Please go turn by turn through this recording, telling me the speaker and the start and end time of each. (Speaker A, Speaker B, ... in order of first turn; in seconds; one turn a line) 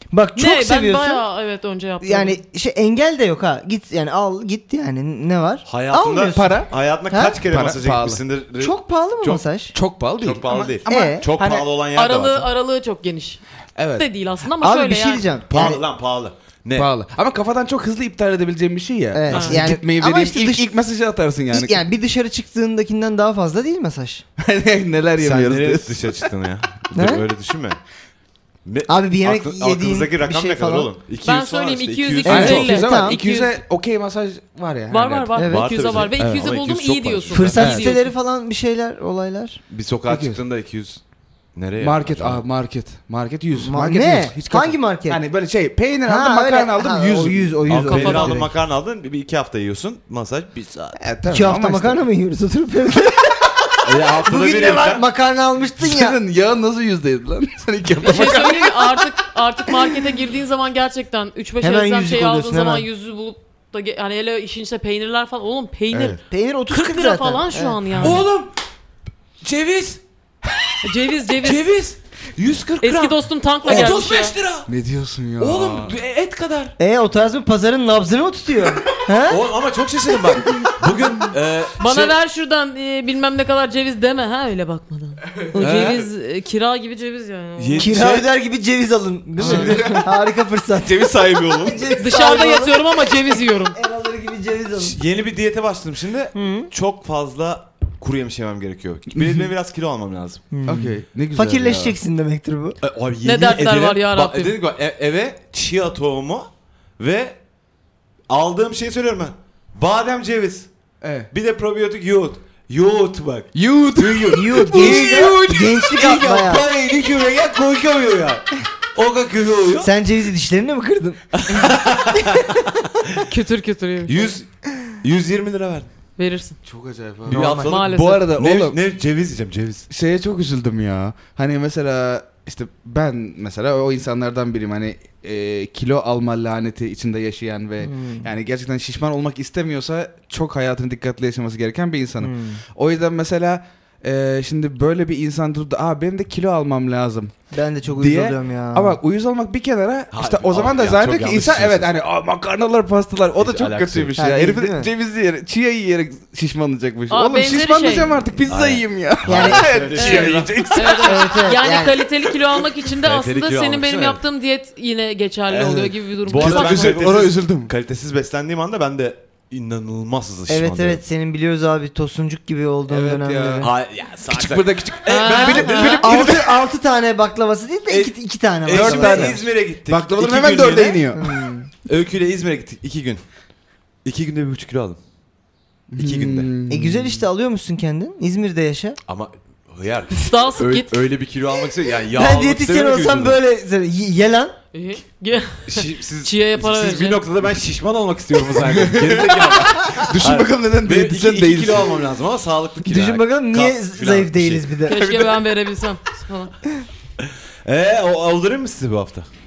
Speaker A: 0.1-1.2
Speaker B: 0.3-2.4
Speaker A: 2.0-7.4
Speaker C: 5.7-9.4
Speaker D: 6.3-6.7
Speaker D: 7.5-8.2
Speaker A: 8.6-9.8
Speaker D: 9.7-11.7
Speaker C: 10.2-12.5
Speaker A: 10.9-11.2
Speaker B: 12.0-13.4
Speaker D: 13.8-14.1
Speaker B: 14.0-15.3
Speaker A: 14.6-15.8
Speaker C: 15.5-16.9
Speaker D: 16.8-21.8
Speaker A: 19.1-20.7
Speaker B: 19.3-19.6
Speaker A: 21.5-24.2
Speaker D: 24.4-26.3
Speaker C: 25.2-27.8
Speaker A: 26.9-27.2
Speaker C: 28.6-32.7
Speaker A: 28.9-30.9
Speaker B: 31.2-33.6
Speaker A: 32.3-33.2
Speaker D: 32.3-35.3
Speaker B: 34.9-38.1
Speaker A: 35.4-35.6
Speaker C: 35.5-37.6
Speaker D: 36.2-36.4
Speaker A: 37.3-39.6
Speaker D: 37.6-37.9
Speaker C: 39.7-41.0
Speaker D: 40.1-40.4
Speaker C: 41.5-42.4
Speaker D: 41.8-48.1
Speaker A: 43.6-45.2
Speaker A: 46.1-48.5
Speaker C: 47.7-51.0
Speaker B: 47.9-48.4
Speaker D: 51.0-52.0
Speaker A: 51.3-56.2
Speaker C: 53.8-55.0
Speaker D: 55.8-58.9
Speaker B: 58.0-68.2
Speaker A: 61.6-62.9
Speaker D: 65.9-66.2
Speaker A: 66.3-68.1
Speaker C: 68.0-68.5
Speaker C: 69.4-70.0
Speaker B: 70.8-71.7
Speaker C: 71.4-74.7
Speaker B: 72.8-74.4
Speaker D: 74.7-76.0
Speaker C: 75.4-76.8
Speaker A: 76.8-79.4
Speaker C: 79.3-82.1
Speaker B: 81.8-87.9
Speaker D: 85.4-85.9
Speaker C: 85.6-86.1
Speaker C: 87.6-88.3
Speaker A: 87.8-95.0
Speaker D: 89.4-90.1
Speaker C: 89.4-90.0
Speaker C: 90.8-91.9
Speaker B: 92.0-93.8
Speaker C: 94.8-100.5
Speaker A: 96.3-96.7
Speaker D: 99.2-99.4
Speaker A: 100.5-102.8
Speaker D: 100.7-102.0
Speaker C: 102.8-106.5
Speaker B: 103.2-104.5
Speaker C: 107.0-107.4
Speaker C: 108.3-110.7
Speaker D: 111.0-111.3
Speaker C: 111.3-119.9
Speaker D: 113.5-116.2
Speaker A: 114.3-116.7
Speaker A: 119.8-121.2
Speaker C: 121.3-123.3
Speaker B: 123.3-124.3
Speaker C: 124.1-125.9
Speaker B: 126.2-126.6
Speaker D: 126.7-128.8
Speaker C: 127.3-129.9
Speaker A: 127.3-127.7
Speaker B: 127.6-128.3
Speaker D: 129.9-147.3
Speaker A: 137.8-138.3
Speaker A: 142.2-142.6
Speaker A: 147.5-149.0
Speaker D: 148.0-161.6
Speaker C: 150.1-151.9
Speaker C: 153.4-154.2
Speaker A: 154.2-154.9
Speaker B: 157.1-158.1
Speaker C: 158.5-161.0
Speaker A: 159.3-159.8
Speaker B: 160.0-167.0
Speaker A: 161.0-162.0
Speaker C: 163.0-164.2
Speaker C: 165.6-171.0
Speaker D: 166.3-167.7
Speaker A: 170.5-173.7
Speaker D: 172.9-173.7
Speaker C: 173.6-176.5
Speaker D: 174.3-176.5
Speaker B: 175.1-176.1
Speaker A: 176.0-179.4
Speaker C: 177.9-181.0
Speaker D: 178.7-181.5
Speaker A: 181.1-181.7
Speaker C: 181.9-183.2
Speaker C: 184.1-185.0
Speaker D: 185.9-187.2
Speaker C: 186.0-186.5
Speaker A: 186.7-189.0
Speaker C: 189.1-193.4
Speaker B: 190.1-190.9
Speaker A: 192.1-194.6
Speaker B: 194.7-197.2
Speaker C: 195.7-205.0
Speaker D: 198.6-202.0
Speaker A: 202.8-205.1
Speaker B: 204.9-206.5
Speaker C: 207.2-209.3